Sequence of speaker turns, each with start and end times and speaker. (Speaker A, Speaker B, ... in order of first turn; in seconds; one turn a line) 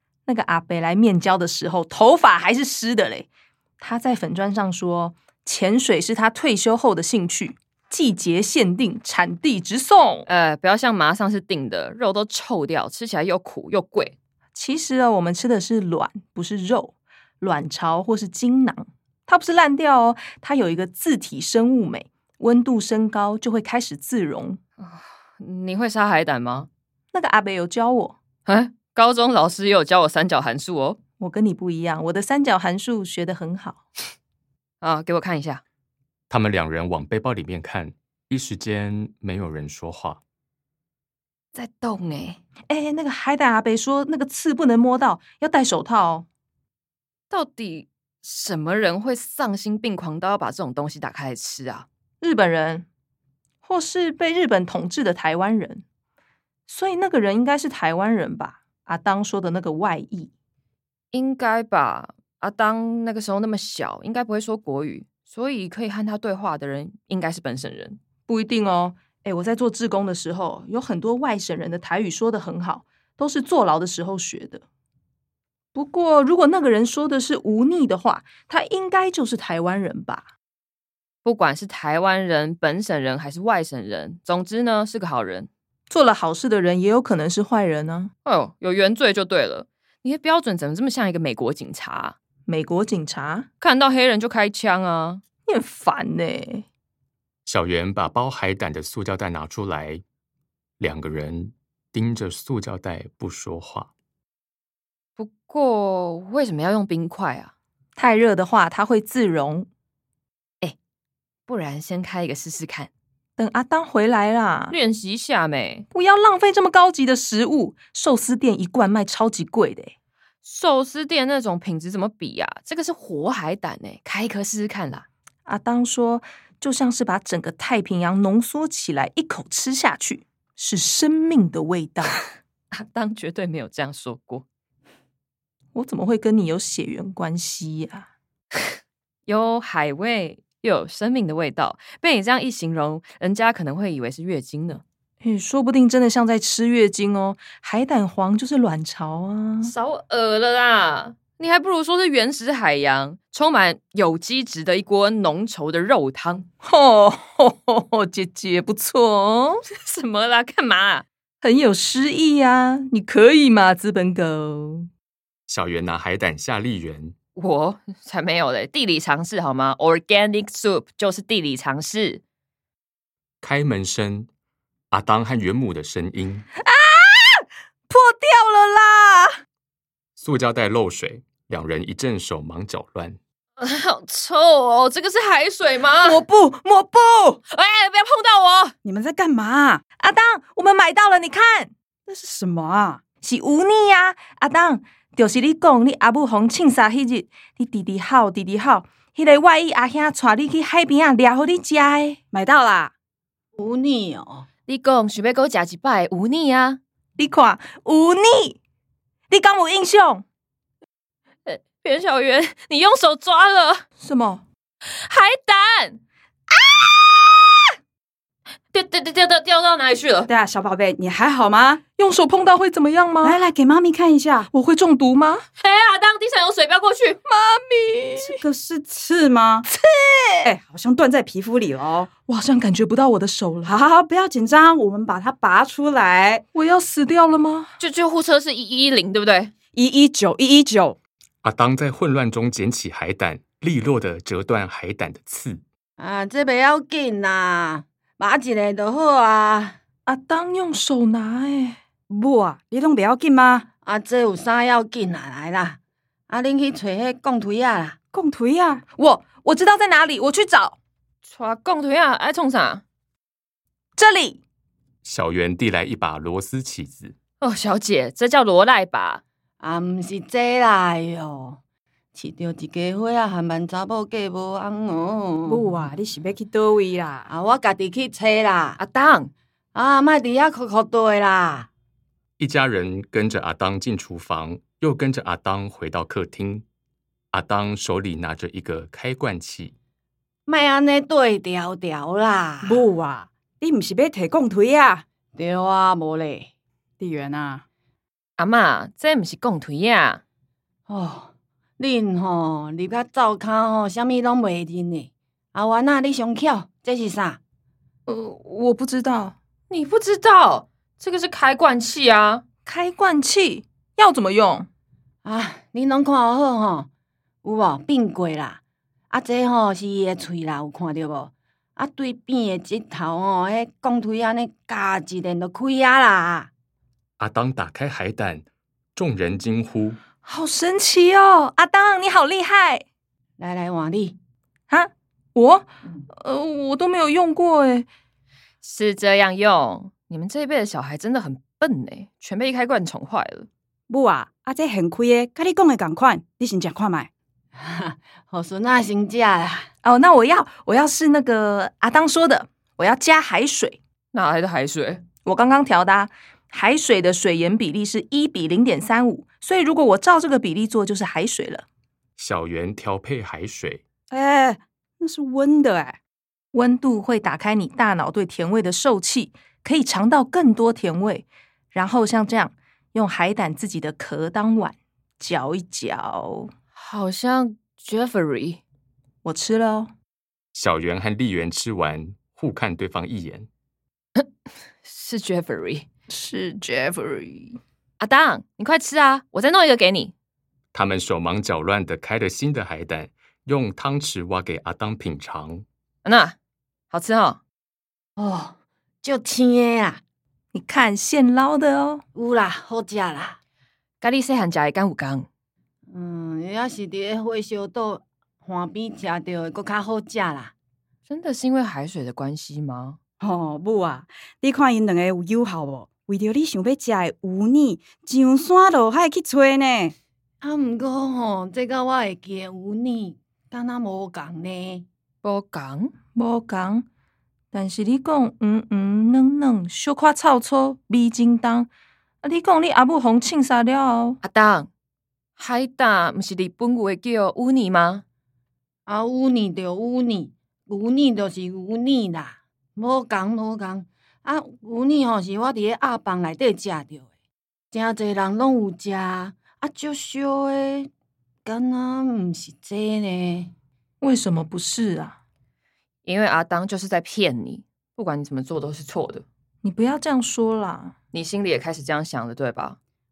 Speaker A: 0.2-3.3
Speaker A: 3.8-10.3
Speaker B: 10.2-14.1
Speaker A: 14.5-24.6
Speaker B: 24.8-26.7
Speaker A: 27.1-28.2
Speaker B: 28.4-31.0
Speaker A: 31.2-33.8
Speaker B: 34.8-35.6
Speaker C: 36.3-40.2
Speaker B: 41.5-42.4
Speaker A: 42.7-46.2
Speaker B: 47.3-51.9
Speaker A: 52.2-52.9
Speaker A: 53.6-55.8
Speaker A: 56.7-60.3
Speaker B: 61.1-68.0
Speaker A: 68.3-74.6
Speaker A: 75.7-80.2
Speaker B: 81.2-85.5
Speaker A: 85.9-88.1
Speaker B: 88.2-92.1
Speaker A: 92.5-93.5
Speaker B: 93.6-95.2
Speaker A: 95.4-96.6
Speaker C: 97.4-100.0
Speaker C: 100.8-103.9
Speaker B: 105.2-107.5
Speaker A: 108.0-109.7
Speaker B: 111.5-112.9
Speaker A: 113.4-114.8
Speaker B: 114.7-115.8
Speaker A: 115.9-119.9
Speaker B: 120.4-125.0
Speaker A: 125.5-132.2
Speaker B: 132.7-134.4
Speaker A: 135.7-138.1
Speaker B: 139.3-144.8
Speaker A: 145.2-149.7
Speaker B: 149.6-156.5
Speaker A: 156.6-159.5
Speaker B: 159.6-161.0
Speaker A: 161.4-164.9
Speaker C: 165.5-167.2
Speaker B: 167.3-172.2
Speaker C: 173.4-174.3
Speaker C: 174.9-176.5
Speaker A: 176.6-179.3
Speaker C: 180.2-183.2
Speaker B: 183.6-186.2
Speaker A: 186.1-187.4
Speaker B: 187.5-188.7
Speaker D: 188.8-189.8
Speaker A: 190.0-191.7
Speaker D: 192.1-193.0
Speaker A: 193.2-202.2
Speaker D: 202.3-202.9
Speaker E: 203.6-204.4
Speaker B: 204.7-206.8
Speaker A: 207.2-208.6
Speaker A: 209.3-210.2
Speaker B: 211.4-213.8
Speaker A: 214.0-214.4
Speaker B: 214.8-216.0
Speaker B: 218.7-220.3
Speaker D: 220.3-221.8
Speaker A: 222.0-223.5
Speaker D: 223.2-224.5
Speaker A: 224.5-225.4
Speaker B: 225.6-227.2
Speaker A: 227.2-228.4
Speaker D: 228.2-229.7
Speaker A: 229.7-230.5
Speaker D: 230.4-232.1
Speaker A: 232.2-233.7
Speaker D: 233.6-236.4
Speaker A: 236.5-237.7
Speaker B: 237.8-239.5
Speaker D: 239.7-241.0
Speaker C: 241.4-245.6
Speaker E: 246.0-249.8
Speaker A: 250.1-251.8
Speaker D: 252.1-253.7
Speaker E: 253.8-255.8
Speaker E: 256.3-258.0
Speaker D: 258.1-258.8
Speaker A: 259.0-260.8
Speaker B: 261.2-262.8
Speaker A: 264.0-264.4
Speaker C: 265.0-267.1
Speaker B: 267.4-269.2
Speaker E: 269.6-271.6
Speaker E: 272.1-275.6
Speaker D: 275.4-277.3
Speaker E: 277.3-278.8
Speaker B: 278.8-279.3
Speaker E: 279.7-281.7
Speaker C: 282.4-286.6
Speaker C: 287.3-289.7
Speaker E: 290.5-292.8
Speaker D: 292.6-295.0
Speaker E: 295.3-296.5
Speaker D: 297.0-297.6
Speaker B: 298.4-300.2
Speaker E: 300.9-307.4
Speaker A: 308.1-309.4
Speaker B: 309.7-312.4
Speaker A: 312.6-314.7
Speaker E: 315.2-316.9
Speaker E: 317.4-318.6
Speaker E: 319.1-326.5
Speaker C: 327.2-330.0
Speaker A: 330.2-332.8
Speaker E: 333.4-334.1
Speaker A: 334.7-337.9
Speaker B: 338.6-343.5
Speaker D: 343.9-347.1
Speaker E: 347.6-349.7
Speaker A: 349.8-353.8
Speaker B: 354.1-355.0
Speaker A: 355.2-361.6
Speaker C: 362.2-363.8
Speaker D: 364.1-366.0
Speaker A: 366.5-376.5
Speaker B: 376.7-378.6
Speaker A: 379.2-379.9
Speaker C: 380.5-383.5
Speaker B: 384.8-385.9
Speaker A: 386.1-387.6
Speaker B: 388.0-390.1
Speaker C: 390.7-395.6
Speaker B: 396.0-396.4
Speaker B: 396.9-397.4
Speaker E: 398.2-400.0
Speaker A: 400.5-402.0
Speaker E: 402.1-403.4
Speaker B: 404.0-405.3
Speaker E: 405.9-410.5
Speaker B: 411.1-413.0
Speaker D: 413.2-419.9
Speaker E: 420.4-424.9
Speaker B: 425.2-425.9
Speaker A: 426.1-426.8
Speaker A: 427.5-431.7
Speaker A: 432.2-434.2
Speaker B: 434.2-434.7
Speaker B: 435.4-438.0
Speaker E: 438.9-447.1
Speaker E: 447.7-450.9
Speaker E: 451.4-453.5
Speaker A: 454.0-455.2
Speaker B: 456.0-459.2
Speaker A: 459.6-460.9
Speaker B: 461.1-462.8